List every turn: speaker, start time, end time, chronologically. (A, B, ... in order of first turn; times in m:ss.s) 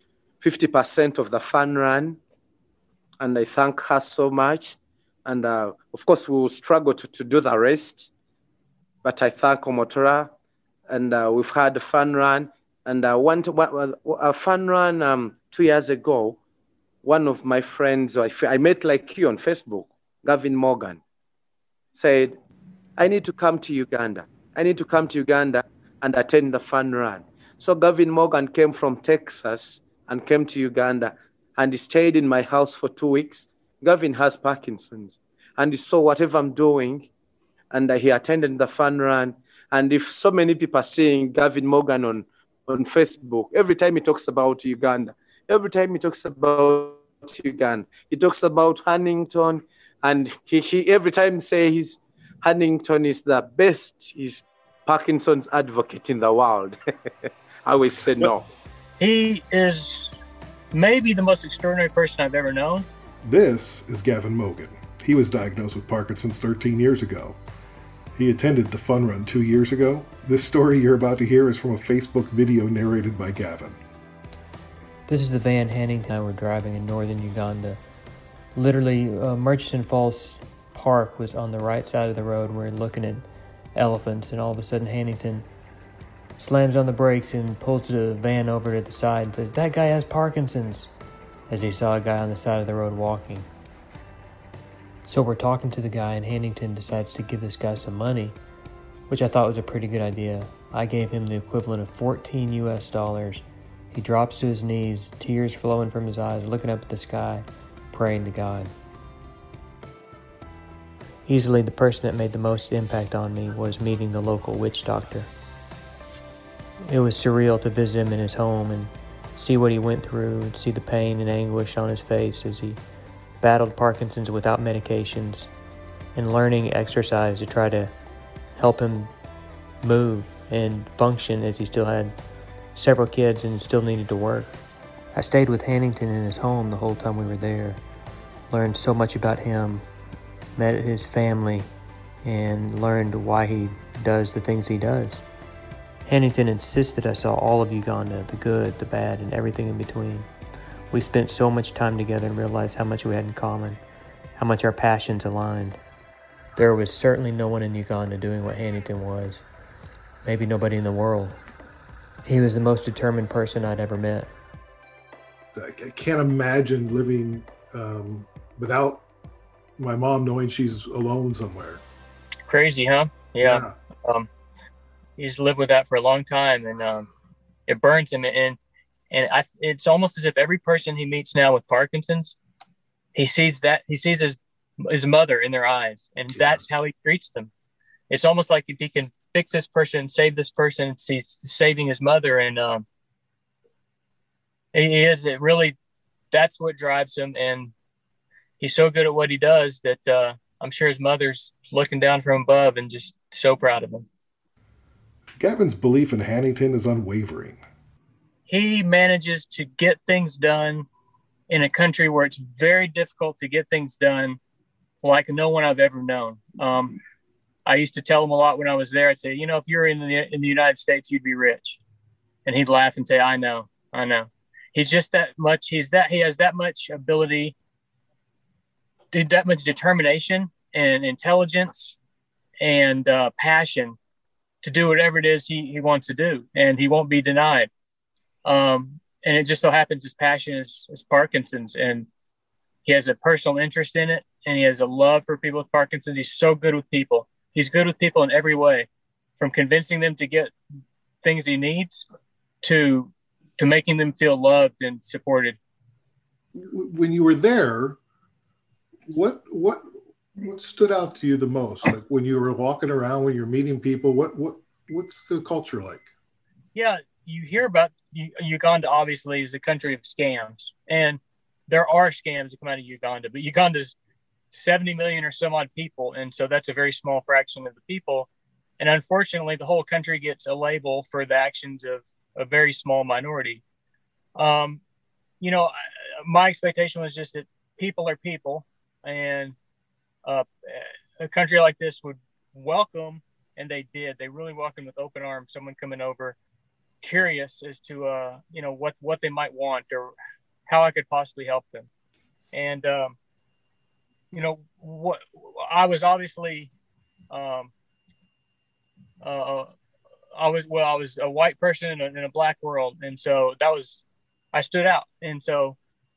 0:00.4-0:02.2 A
0:03.2-0:08.1 A
0:09.0-0:10.3 A
0:10.9-0:16.4 A
0:17.0-0:21.0 A
0:21.9-0:22.4 A
0:23.0-0:37.1 A
0:37.7-0:56.8 A
0:57.7-0:58.5 A
0:59.0-1:00.1 B
1:00.7-1:02.9 B
1:03.2-1:07.4 C
1:08.2-1:13.8 C
1:15.1-1:17.8 D
1:18.6-1:25.5 D
1:26.4-1:30.9 D
1:31.5-1:33.5 D
1:35.1-1:38.4 D
1:39.1-1:48.7 D
1:51.3-1:55.3 D
1:56.9-2:02.8 D
2:03.4-2:05.5 D
2:06.2-2:07.9 D
2:08.6-2:09.1 D
2:09.8-2:12.2 D
2:12.7-2:14.6 D
2:15.1-2:17.8 D
2:18.5-2:19.8 D
2:20.6-2:21.7 D
2:22.2-2:25.2 D
2:26.1-2:30.3 D
2:30.9-2:33.8 D
2:34.4-2:35.8 D
2:36.6-2:39.4 D
2:40.2-2:41.4 D
2:42.2-2:44.3 D
2:45.5-2:49.0 C
2:49.8-2:51.8 C
2:52.5-2:54.3 B
2:53.4-2:53.7 C
2:55.2-2:57.1 B
2:57.7-2:58.6 B
2:59.1-3:02.4 B
3:03.2-3:07.5 B
3:06.3-3:06.6 C
3:08.1-3:12.8 B
3:14.7-3:15.8 B
3:16.3-3:17.7 B
3:18.6-3:24.1 B
3:25.4-3:27.6 C
3:28.5-3:30.9 B
3:31.5-3:34.4 B
3:35.0-3:37.0 B
3:37.7-3:41.8 B
3:42.5-3:47.6 B
3:49.1-3:52.0 B
3:52.6-3:54.0 B
3:54.6-3:57.7 B
3:58.4-4:02.1 B
4:02.8-4:08.9 B
4:09.4-4:10.5 B
4:11.2-4:12.1 B
4:12.6-4:15.6 B
4:16.6-4:18.0 C
4:19.1-4:19.8 C
4:20.4-4:26.1 C
4:26.8-4:34.0 B
4:34.5-4:38.3 B
4:38.8-4:43.6 B
4:44.4-4:44.8 B
4:45.4-4:49.6 B
4:50.2-4:56.4 B
4:57.0-5:00.1 B
5:00.7-5:01.9 B
5:02.5-5:03.2 B
5:04.3-5:06.7 B
5:07.3-5:07.7 B
5:09.2-5:09.7 B
5:10.4-5:14.0 B
5:14.5-5:15.8 B